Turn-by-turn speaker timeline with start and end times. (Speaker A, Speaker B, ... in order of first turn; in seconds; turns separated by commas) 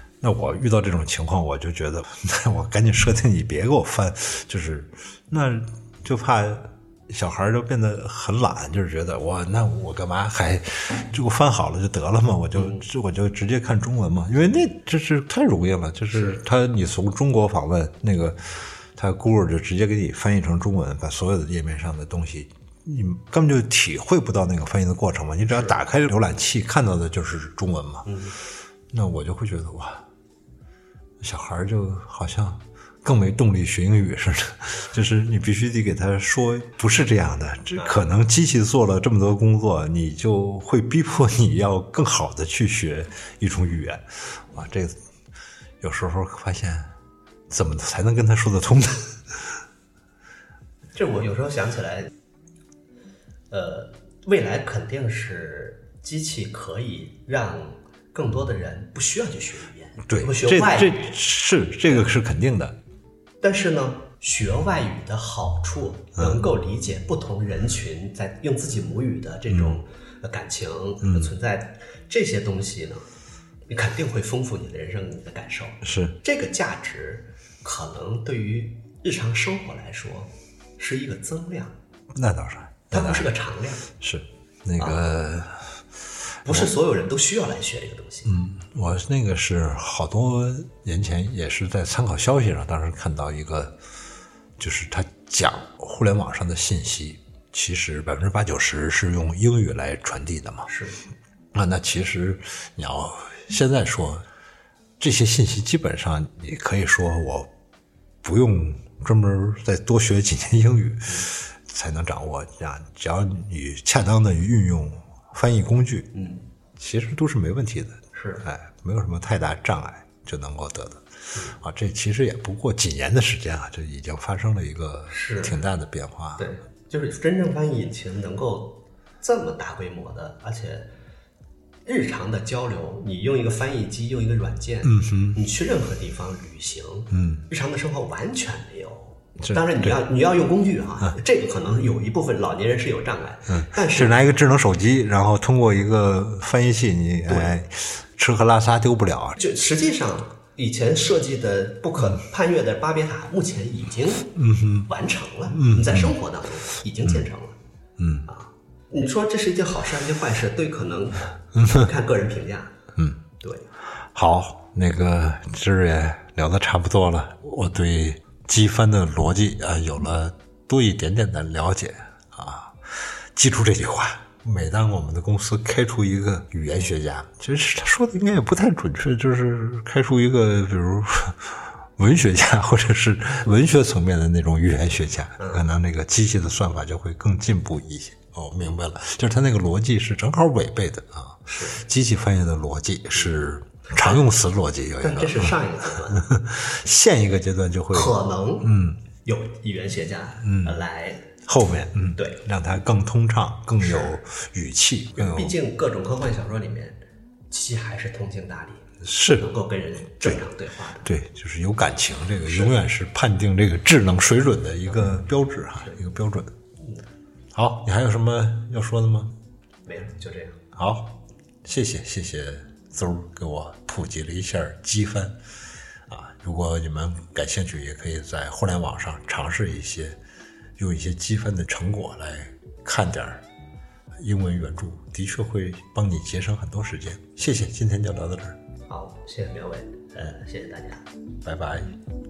Speaker A: 0.2-28.1, Speaker B: 12.6-12.8, Speaker B: 25.5-25.8, Speaker B: 28.1-28.4, Speaker A: 28.9-30.1, Speaker A: 31.2-45.0, Speaker B: 37.8-38.0, Speaker A: 45.8-46.9, Speaker A: 47.5-49.6, Speaker B: 51.0-52.1, Speaker B: 53.5-61.2, Speaker A: 60.1-62.8, Speaker B: 63.4-73.0, Speaker A: 66.2-66.4, Speaker A: 69.5-69.8, Speaker A: 71.0-71.3, Speaker B: 73.7-81.8, Speaker A: 75.8-76.2, Speaker A: 82.1-83.3, Speaker B: 82.9-83.9, Speaker A: 84.0-85.8, Speaker B: 84.8-85.0, Speaker B: 86.4-88.4, Speaker A: 88.3-93.8, Speaker A: 94.6-100.7, Speaker B: 100.7-101.0, Speaker A: 101.5-104.3, Speaker A: 105.0-107.5, Speaker A: 108.2-116.1, Speaker B: 116.1-116.4, Speaker A: 116.8-126.5, Speaker B: 118.1-118.4, Speaker B: 125.1-125.6, Speaker B: 126.4-130.9, Speaker B: 131.9-144.2, Speaker A: 134.8-135.4, Speaker A: 137.1-137.4, Speaker A: 139.4-139.9, Speaker A: 143.5-149.4, Speaker B: 147.3-147.6, Speaker B: 149.4-157.6, Speaker A: 154.4-154.9, Speaker A: 155.5-156.2, Speaker A: 158.0-158.3, Speaker B: 158.3-162.7, Speaker A: 161.6-161.9, Speaker B: 163.4-163.7, Speaker A: 164.1-199.0, Speaker B: 185.4-185.6, Speaker B: 191.5-191.8, Speaker B: 193.9-194.3, Speaker B: 195.0-196.3, Speaker B: 197.9-201.3, Speaker A: 200.4-200.8, Speaker A: 201.4-205.6, Speaker B: 203.8-204.1, Speaker B: 205.2-207.0, Speaker B: 207.5-211.1, Speaker A: 209.0-209.5, Speaker A: 211.0-216.5, Speaker B: 212.5-212.7, Speaker A: 217.5-219.3, Speaker B: 219.9-220.6, Speaker A: 220.7-225.4, Speaker A: 226.1-230.2, Speaker A: 230.8-233.4, Speaker A: 234.2-238.6, Speaker B: 238.9-241.1, Speaker A: 241.4-241.9